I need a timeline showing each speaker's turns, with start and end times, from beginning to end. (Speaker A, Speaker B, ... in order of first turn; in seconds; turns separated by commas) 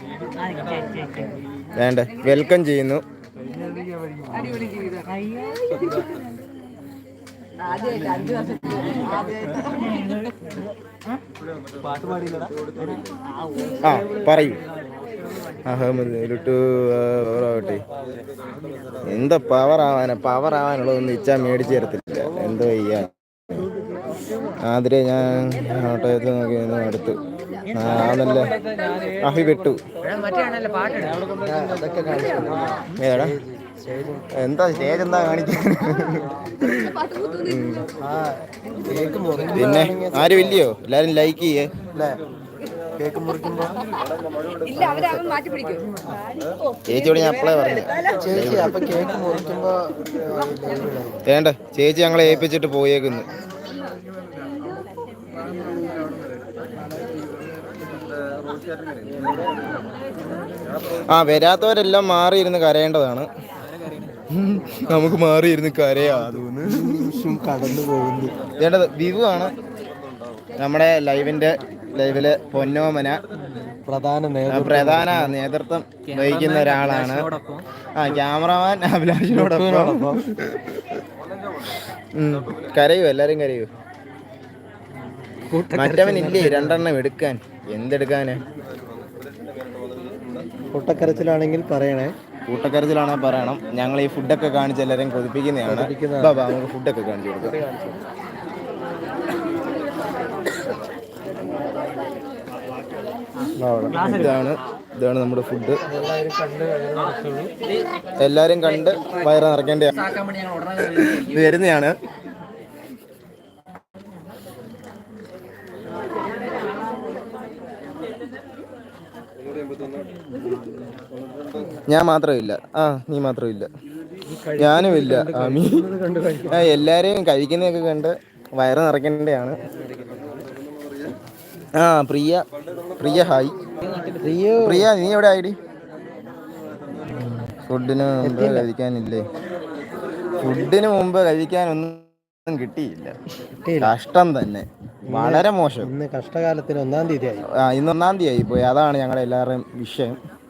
Speaker A: 1.8-3.0, Speaker B: 4.3-6.1, Speaker B: 7.6-9.9, Speaker A: 13.8-14.6, Speaker A: 15.7-17.9, Speaker A: 19.0-23.1, Speaker A: 24.6-27.2, Speaker A: 27.7-28.5, Speaker A: 29.2-29.8, Speaker C: 30.0-31.3, Speaker D: 31.3-34.3, Speaker A: 33.0-33.4, Speaker A: 34.3-37.9, Speaker B: 36.7-37.6, Speaker D: 38.0-40.6, Speaker A: 39.5-41.7, Speaker D: 43.0-43.8, Speaker B: 44.6-48.0, Speaker D: 44.8-45.2, Speaker A: 46.9-48.9, Speaker D: 48.1-51.2, Speaker A: 51.3-53.3, Speaker D: 52.2-52.5, Speaker A: 61.1-63.3, Speaker C: 63.6-64.2, Speaker A: 64.3-67.4, Speaker C: 64.9-65.1, Speaker D: 66.7-68.3, Speaker A: 68.6-69.5, Speaker A: 70.6-73.2, Speaker C: 73.4-73.7, Speaker D: 73.9-75.3, Speaker A: 74.5-77.3, Speaker C: 76.0-77.7, Speaker A: 78.0-81.0, Speaker D: 79.3-80.2, Speaker A: 82.2-83.7, Speaker D: 85.5-86.8, Speaker A: 85.7-88.4, Speaker D: 90.7-92.1, Speaker A: 92.5-97.6, Speaker D: 95.7-96.4, Speaker D: 97.4-98.0, Speaker D: 103.6-104.3, Speaker A: 104.0-105.8, Speaker D: 105.9-107.5, Speaker A: 108.2-110.2, Speaker A: 110.7-112.0, Speaker A: 121.9-123.7, Speaker D: 124.3-126.8, Speaker A: 124.6-125.8, Speaker A: 126.5-129.6, Speaker A: 131.8-132.4, Speaker A: 133.0-133.6, Speaker C: 133.8-134.3, Speaker D: 134.2-134.9, Speaker A: 134.6-135.6, Speaker A: 137.4-139.2, Speaker D: 138.2-138.7, Speaker A: 140.4-143.2, Speaker D: 143.6-143.9, Speaker A: 143.8-145.9, Speaker D: 145.1-147.4, Speaker A: 147.5-150.2